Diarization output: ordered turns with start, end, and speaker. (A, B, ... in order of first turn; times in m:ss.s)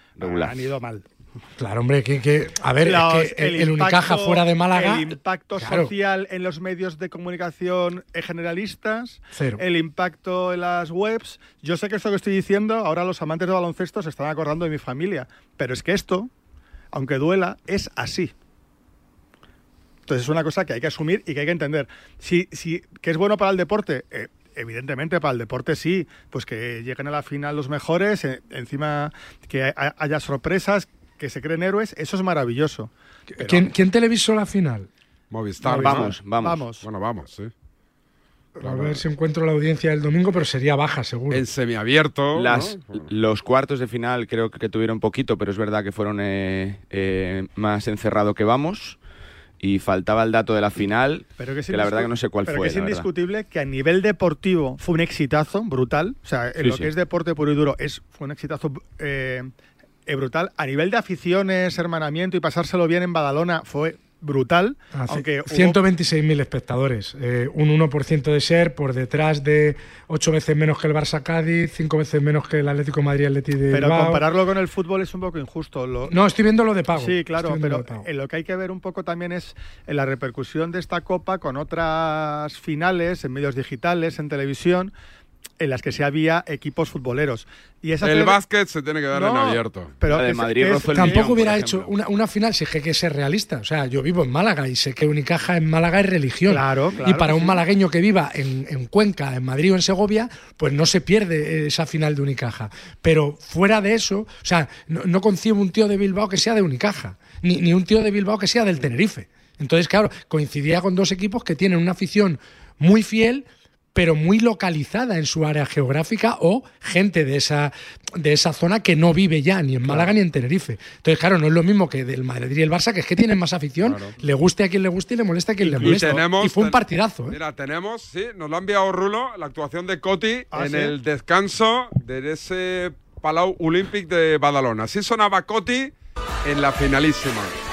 0:00.2-0:00.7 A
0:00.2-0:01.0 B
0:01.6-0:05.9 C
0:02.8-0:16.3 B
0:09.3-0:09.6 C
0:16.9-0:18.3 B
0:20.1-0:33.6 B
0:33.4-0:34.9 C
0:35.3-0:37.5 D
0:35.7-0:36.8 B
0:35.7-0:36.6 A
0:38.6-0:39.0 D
0:38.6-0:41.4 C
0:41.3-0:43.0 D
0:42.3-0:49.0 A
0:49.6-0:53.0 A
0:51.4-0:59.5 B
1:00.1-1:05.8 B
1:04.9-1:14.2 C
1:13.7-1:16.1 B
1:16.1-1:18.0 C
1:16.9-1:24.9 B
1:25.6-1:28.3 B
1:28.0-1:29.9 D
1:29.1-1:31.0 B
1:30.1-1:31.9 A
1:30.9-2:07.4 C
1:36.5-1:37.6 B
2:03.8-2:04.1 D
2:05.6-2:06.1 B
2:05.8-2:06.8 D
2:07.3-2:15.9 D
2:10.5-2:10.9 B
2:16.4-2:17.5 D